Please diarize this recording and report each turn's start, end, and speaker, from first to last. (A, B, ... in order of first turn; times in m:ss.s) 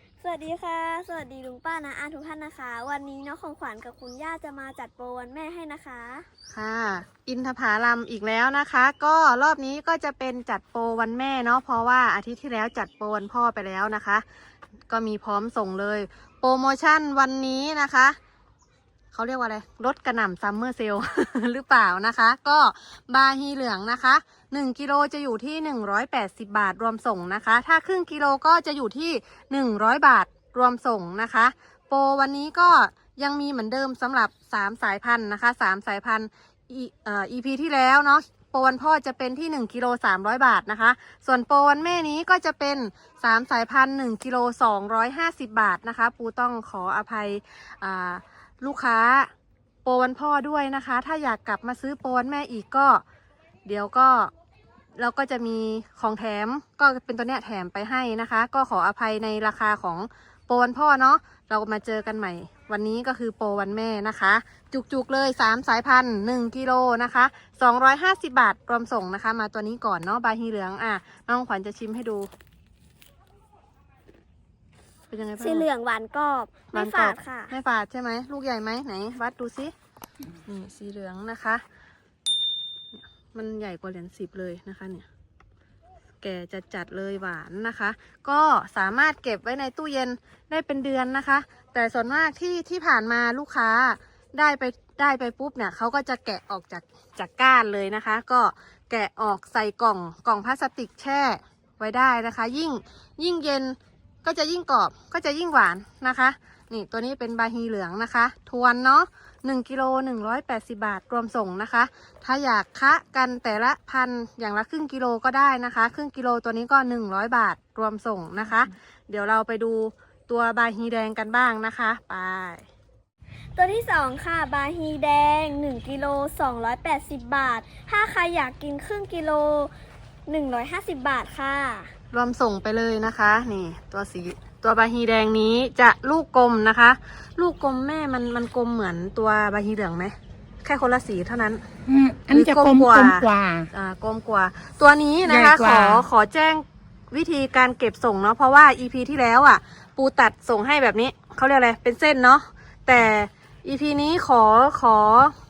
0:00.2-0:06.2 A
0:06.5-0:14.2 B
0:14.9-0:18.2 B
0:19.1-0:49.3 B
0:49.8-0:53.0 B
0:53.6-0:54.3 B
0:55.0-1:12.3 B
1:15.1-1:15.6 B
1:15.4-1:17.5 A
1:16.7-1:19.7 B
1:20.4-1:21.6 B
1:22.9-1:25.0 B
1:26.2-2:02.6 B
2:03.6-2:09.7 A
2:10.3-2:11.9 A
2:12.1-2:21.6 B
2:21.9-2:23.7 C
2:22.3-2:35.3 B
2:25.2-2:26.0 C